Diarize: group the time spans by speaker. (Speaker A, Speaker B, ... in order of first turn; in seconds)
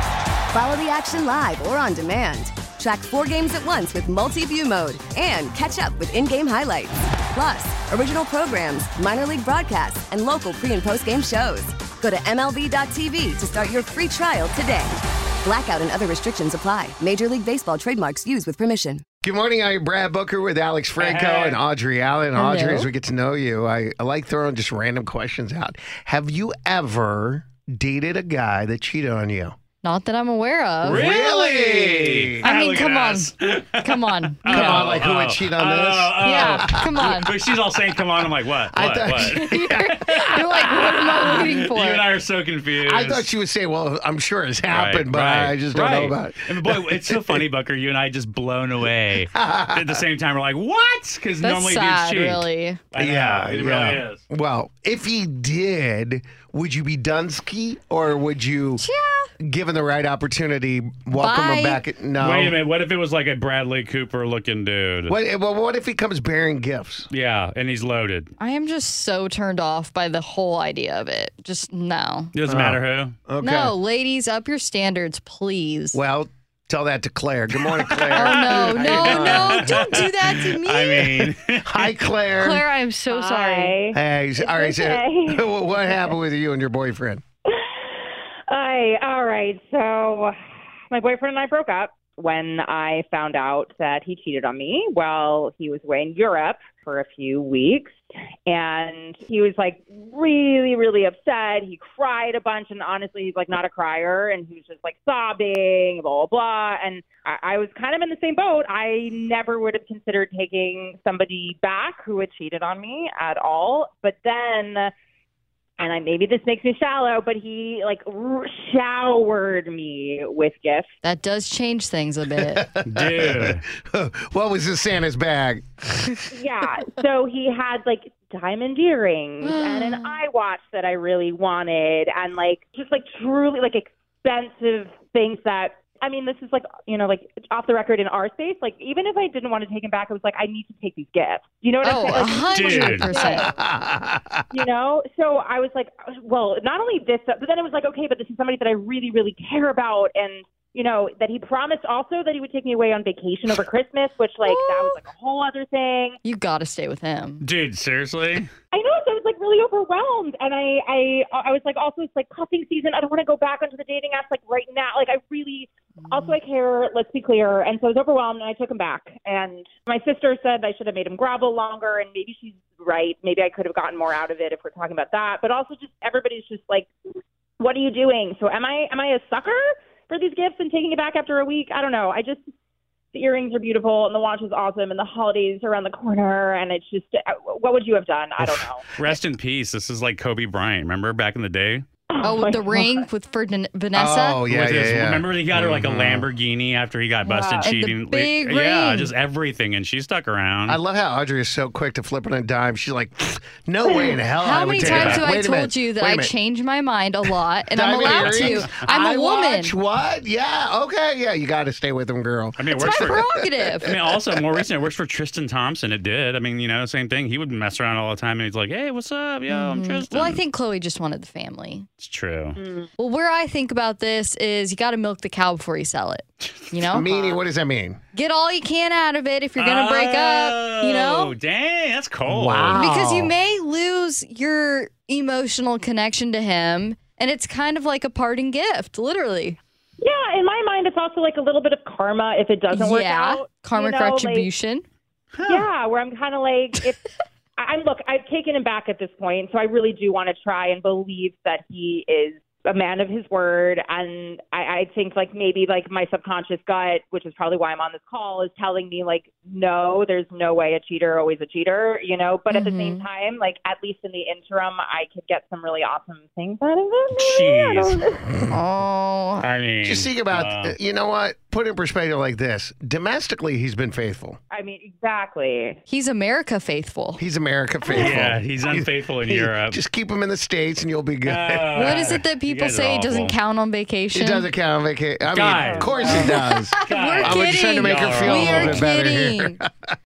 Speaker A: 0.5-19.0
Speaker B: 19.2-29.6, 30.9-32.5, 34.4-37.3, 38.7-40.9, 42.8-47.4, 49.3-50.0, 53.0-58.8, 59.4-62.6, 65.1-67.1, 72.4-73.8, 75.9-80.1, 81.2-82.6, 83.9-87.2, 122.4-126.3, 143.2-144.5, 193.9-196.3, 200.7-206.3, 207.7-214.2, 226.9-228.0, 232.2-233.3, 269.8-274.4, 277.2-282.1, 284.1-289.7
Speaker C: 21.0-21.6, 30.8-43.3, 44.7-54.2, 62.2-65.1, 67.1-68.3, 72.3-73.2, 77.6-81.9, 122.8-123.7, 142.1-143.2, 157.4-158.5, 188.4-191.8, 194.4-200.8, 204.8-205.3, 208.0-208.9, 212.6-213.2, 213.8-220.4, 222.0-222.6, 226.4-227.0, 229.6-232.8, 245.4-245.6, 267.1-268.0, 269.4-270.8, 277.9-279.8, 281.2-283.4, 285.3-288.9
Speaker D: 22.4-22.9, 29.8-31.1, 32.5-33.3, 33.8-34.8, 36.3-37.3, 40.4-42.0, 51.4-52.8, 58.9-59.3, 61.2-61.8, 68.4-72.3, 73.4-76.0, 78.2-81.0, 82.4-83.7, 121.0-122.7, 141.8-143.4, 154.5-154.9, 156.2-157.4, 192.2-194.4, 197.6-199.1, 204.4-209.7, 212.8-213.8, 219.5-221.9, 223.0-227.1, 228.1-231.3, 232.8-239.6, 242.7-244.8, 262.5-263.0, 268.5-269.4, 275.9-277.2, 281.8-284.5, 286.8-289.6
Speaker E: 83.1-86.1, 87.5-90.3, 90.9-114.9, 115.8-120.9, 126.3-143.5, 144.5-156.2, 158.7-176.9, 177.6-182.5, 183.1-188.8, 192.1-193.0, 197.3-197.7, 203.9-204.1, 222.6-222.9, 240.0-244.5, 245.4-268.2, 274.5-275.8, 277.8-278.1, 285.6-286.3